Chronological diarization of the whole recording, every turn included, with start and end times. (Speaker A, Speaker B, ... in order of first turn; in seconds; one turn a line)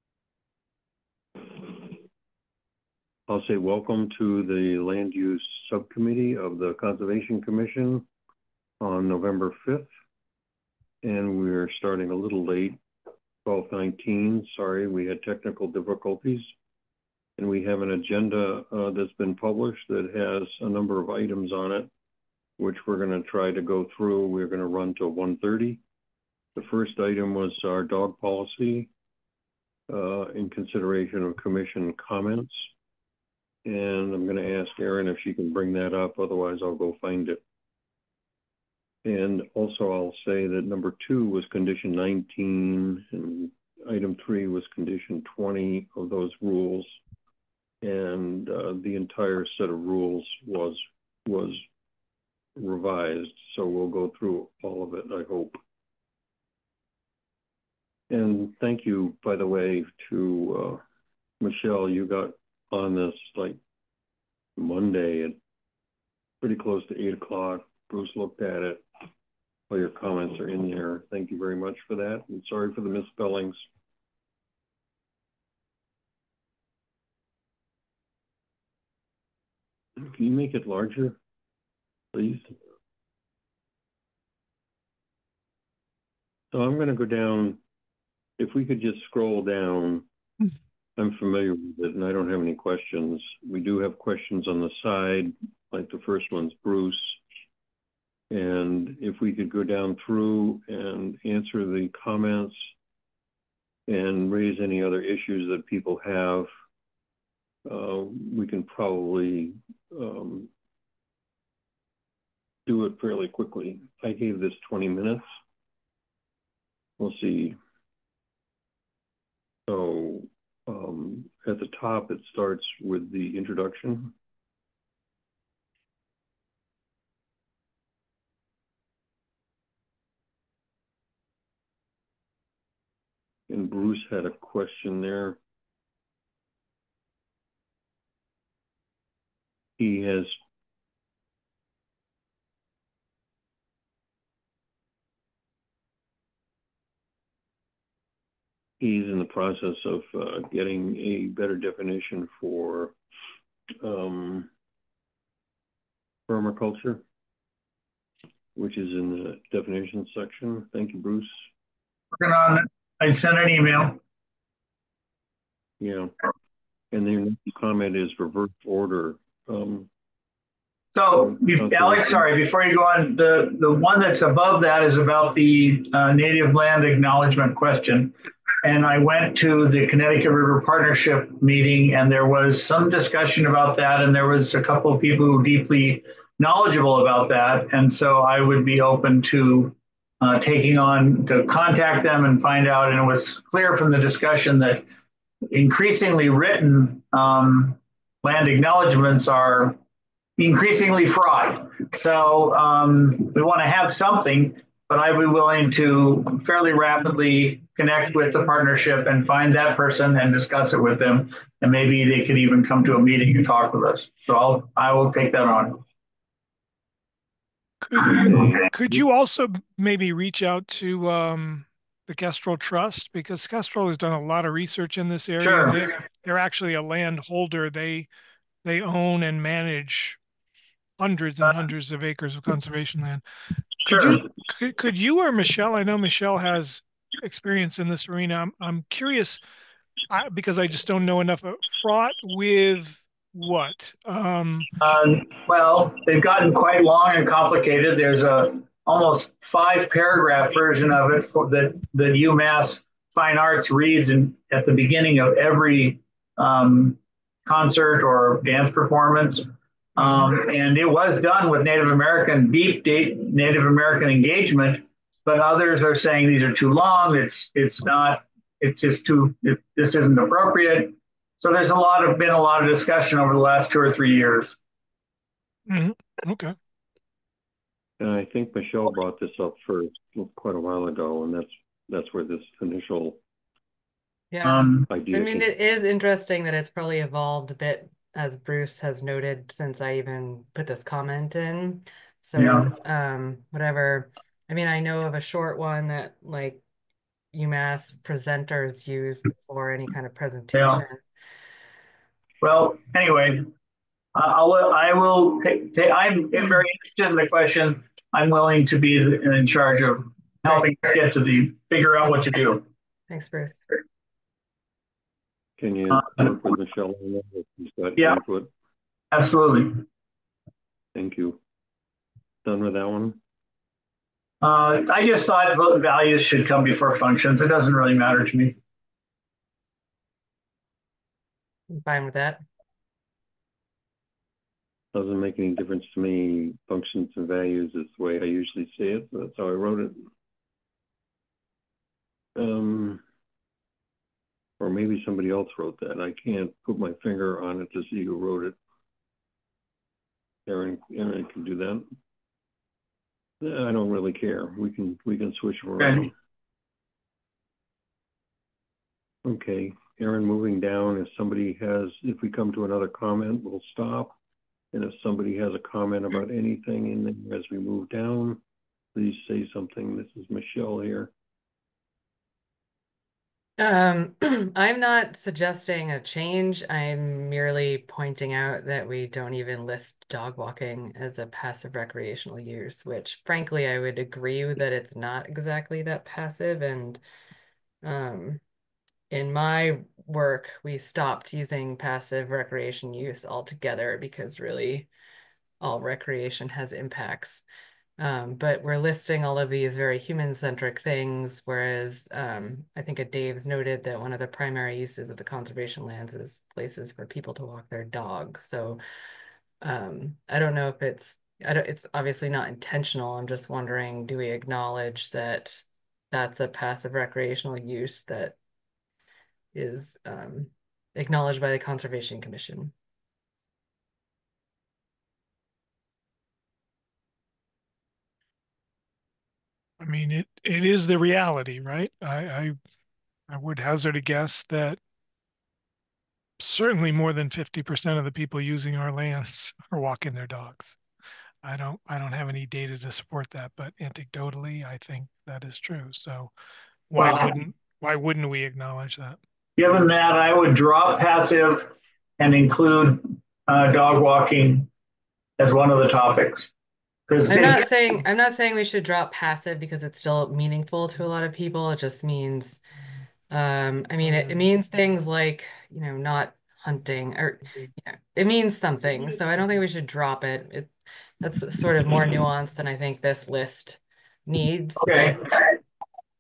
Speaker A: 1.5-1.9
Speaker A: 3.3-8.1
Speaker A: 8.8-9.9
Speaker A: 11.0-12.8
Speaker A: 13.4-16.5
Speaker A: 17.4-21.9
Speaker A: 22.6-25.8
Speaker A: 26.6-28.9
Speaker A: 29.9-32.6
Speaker A: 33.6-37.4
Speaker A: 39.0-47.0
Speaker A: 47.8-51.6
Speaker A: 52.5-55.6
Speaker A: 58.1-60.8
Speaker A: 61.4-63.6
Speaker A: 64.6-65.4
Speaker A: 66.4-68.9
Speaker A: 69.7-73.6
Speaker A: 80.0-81.2
Speaker A: 82.1-82.6
Speaker A: 86.5-87.6
Speaker A: 88.4-90.1
Speaker A: 91.0-97.2
Speaker A: 98.3-102.6
Speaker A: 103.9-106.5
Speaker A: 107.7-110.5
Speaker A: 112.7-115.3
Speaker A: 117.0-117.6
Speaker A: 119.7-124.2
Speaker A: 133.5-135.4
Speaker A: 139.8-140.3
Speaker A: 148.8-152.9
Speaker A: 153.8-154.5
Speaker A: 156.3-157.0
Speaker A: 158.5-161.4
Speaker B: 162.2-164.0
Speaker A: 165.8-166.1
Speaker A: 166.9-169.9
Speaker B: 170.9-194.8
Speaker A: 171.2-172.2
Speaker B: 195.5-199.8
Speaker B: 200.4-215.8
Speaker C: 217.8-228.1
Speaker B: 225.4-225.8
Speaker C: 228.6-230.2
Speaker C: 231.0-233.2
Speaker C: 233.8-239.4
Speaker B: 233.8-234.3
Speaker C: 240.1-244.7
Speaker B: 244.8-274.6
Speaker C: 275.7-276.6
Speaker A: 278.0-283.2
Speaker D: 284.3-296.6
Speaker B: 284.4-284.9
Speaker A: 284.9-285.5
Speaker B: 292.4-292.7
Speaker D: 297.3-301.0
Speaker B: 300.5-300.9
Speaker B: 302.4-303.5
Speaker B: 304.1-312.6
Speaker D: 313.1-313.6
Speaker A: 315.6-318.5
Speaker B: 319.1-319.8
Speaker A: 320.9-321.4
Speaker A: 322.4-323.2
Speaker B: 324.4-328.6
Speaker D: 331.7-332.4
Speaker A: 334.9-340.0
Speaker A: 342.4-343.0
Speaker A: 344.6-348.6
Speaker A: 350.5-351.9
Speaker A: 353.4-356.1
Speaker B: 355.8-356.1
Speaker A: 359.2-364.2
Speaker A: 364.7-368.4
Speaker A: 368.9-371.1
Speaker D: 373.6-387.0
Speaker D: 387.8-388.4
Speaker D: 389.1-394.9
Speaker D: 395.6-397.4
Speaker D: 398.0-408.8
Speaker D: 409.6-418.4
Speaker D: 419.5-422.7
Speaker C: 429.8-432.6
Speaker C: 433.3-434.8
Speaker C: 436.4-440.8
Speaker C: 441.4-446.3
Speaker C: 446.9-449.2
Speaker B: 447.0-447.3
Speaker B: 449.6-454.7
Speaker B: 455.4-456.5
Speaker B: 457.1-457.7
Speaker D: 457.3-462.6
Speaker D: 463.3-475.3
Speaker B: 474.8-475.5